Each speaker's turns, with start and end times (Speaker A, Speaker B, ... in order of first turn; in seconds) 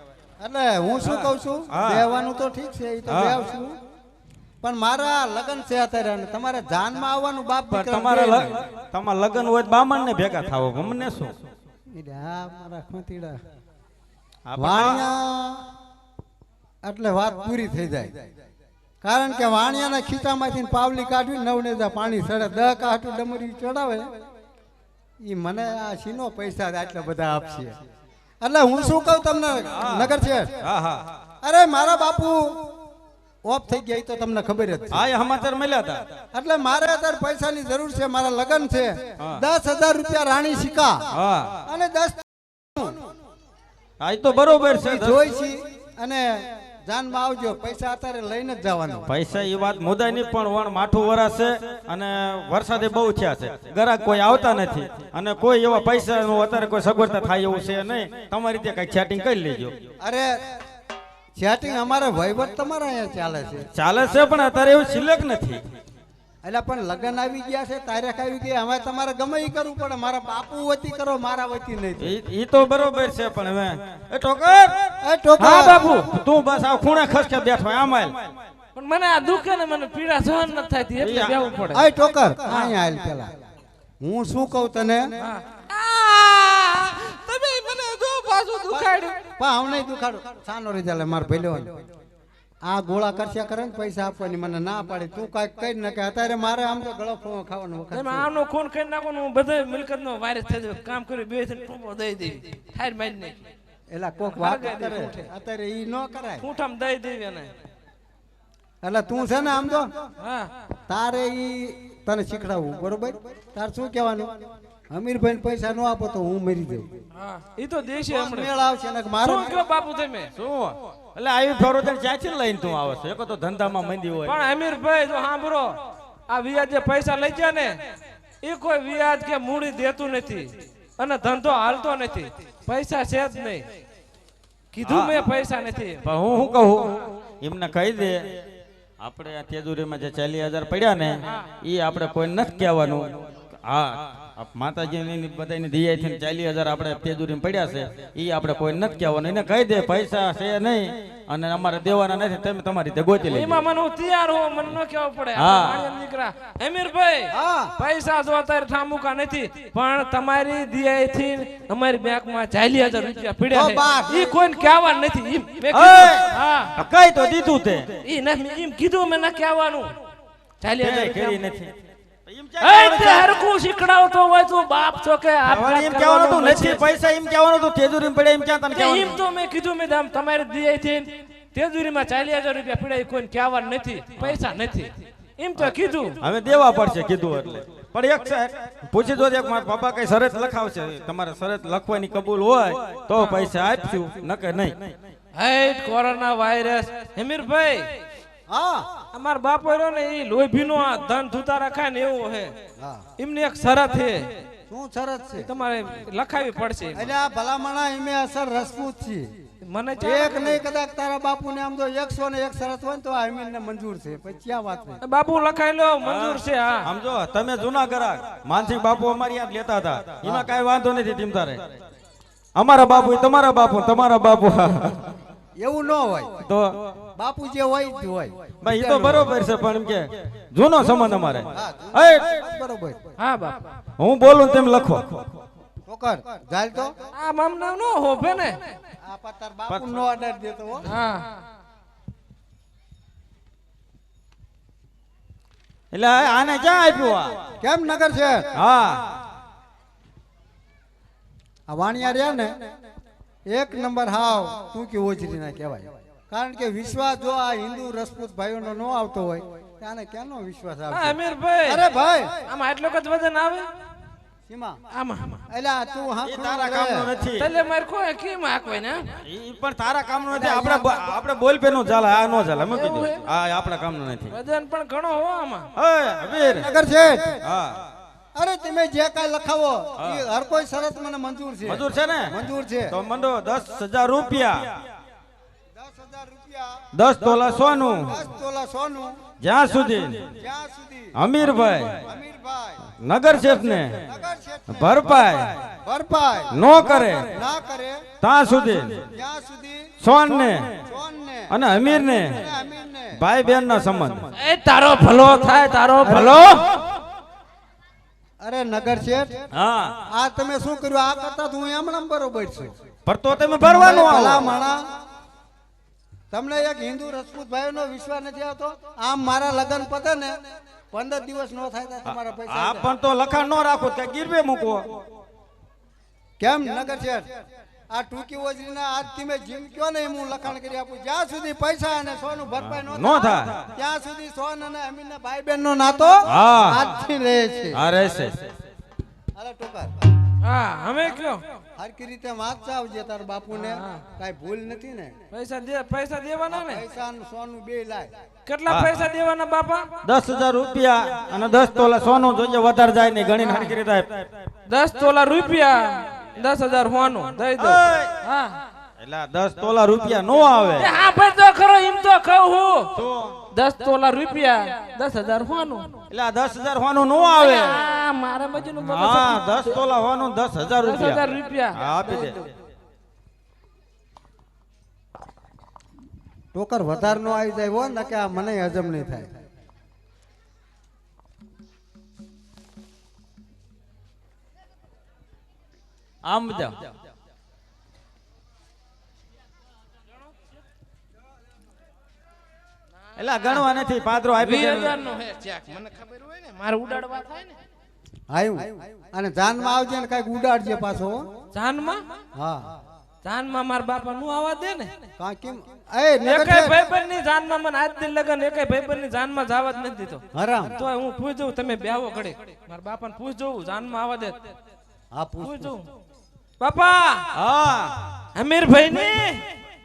Speaker A: 0.4-3.7, 4.6-8.6, 11.9-13.4, 14.6-15.6, 16.8-18.2, 19.0-24.1, 25.2-27.7, 28.4-30.5, 31.4-32.7, 33.5-35.0, 36.3-41.0, 41.6-43.0, 44.8-49.0, 60.0-60.3, 61.4-63.6, 66.4-72.1, 75.0-75.8, 81.7-83.3, 84.0-85.0, 88.7-91.8, 92.6-98.3, 103.9-106.4, 108.8-109.9, 110.9-114.3, 114.9-116.9, 118.1-119.6, 157.3-157.7, 163.5-164.4, 198.5-198.8, 202.8-203.0, 204.7-205.5, 206.9-209.3, 210.0-215.0, 220.2-220.5, 225.6-226.3, 227.2-229.3, 231.5-233.0, 235.9-236.9, 239.0-240.8, 247.6-248.5, 251.7-252.7, 253.5-262.3, 264.5-264.8, 265.5-267.1, 270.3-271.0, 276.5-277.4, 278.3-282.9, 285.8-286.8, 288.0-289.2, 290.3-291.1, 292.1-292.8, 293.4-298.0, 299.1-299.9, 300.6-303.2, 306.0-306.4, 308.4-309.4, 310.1-312.7, 313.6-314.8, 316.3-320.3, 320.9-322.9, 326.4-327.3, 327.9-337.8, 339.4-339.9, 341.8-345.1, 346.5-348.1, 376.5-379.3, 398.3-401.2, 402.4-402.7, 405.2-406.9, 410.3-410.7, 415.1-415.7
Speaker B: 1.0-2.1, 3.1-3.4, 7.7-11.3, 14.4-15.0, 29.7-31.0, 34.9-36.0, 41.1-41.6, 44.0-45.2, 49.1-59.8, 63.7-65.6, 72.0-74.8, 75.9-78.2, 81.0-81.3, 120.4-124.4, 134.9-135.1, 136.0-138.2, 139.0-143.1, 143.6-153.6, 155.3-155.9, 165.7-166.2, 166.8-167.9, 170.8-171.7, 172.3-173.4, 175.4-179.2, 185.6-194.9, 216.0-221.6, 222.6-225.1, 226.4-226.7, 228.6-232.4, 234.0-235.2, 239.7-240.0, 245.9-247.3, 248.5-249.2, 266.2-267.4, 269.2-274.3, 275.8-276.6, 277.4-277.8, 280.0-280.2, 281.6-282.3, 282.9-284.8, 286.9-288.1, 289.4-290.2, 291.1-292.0, 293.0-294.0, 294.7-295.6, 296.5-297.3, 298.2-299.0, 300.0-300.8, 301.5-302.4, 303.1-304.2, 309.5-310.0, 313.1-314.5, 322.1-324.9, 332.6-333.6, 336.2-336.8, 337.7-338.5, 348.7-348.9, 350.0-354.3, 357.6-358.1, 359.0-360.9, 362.9-363.4, 366.1-367.8, 368.8-372.4, 386.2-386.8, 393.2-394.9, 417.3-418.0
Speaker C: 75.4-76.1, 78.7-81.9, 82.5-82.7, 85.2-89.1, 97.9-103.4, 104.3-105.2, 106.4-107.5, 110.2-110.5, 117.2-118.5, 119.2-120.3, 124.2-125.8, 126.3-127.8, 128.4-133.7, 134.7-136.0, 153.2-166.7, 168.0-169.9, 170.6-171.4, 172.6-176.8, 178.7-186.2, 195.3-197.9, 199.1-202.5, 203.2-204.3, 205.4-207.1, 209.6-210.6, 215.0-216.9, 233.2-233.7, 237.1-238.6, 240.9-241.2, 260.9-261.8, 262.4-263.7, 264.9-265.4, 267.4-269.1, 272.7-273.2, 274.3-275.7, 304.4-306.6, 340.4-341.4, 343.5-344.0, 345.3-346.8, 348.4-349.9, 353.4-353.7, 354.7-358.6, 360.8-362.9, 363.5-365.9, 367.4-369.7, 370.8-372.5, 394.4-397.5, 401.5-402.0, 403.2-404.9, 406.2-410.2, 410.8-414.4, 415.4-415.9, 416.6-417.3, 418.3-419.4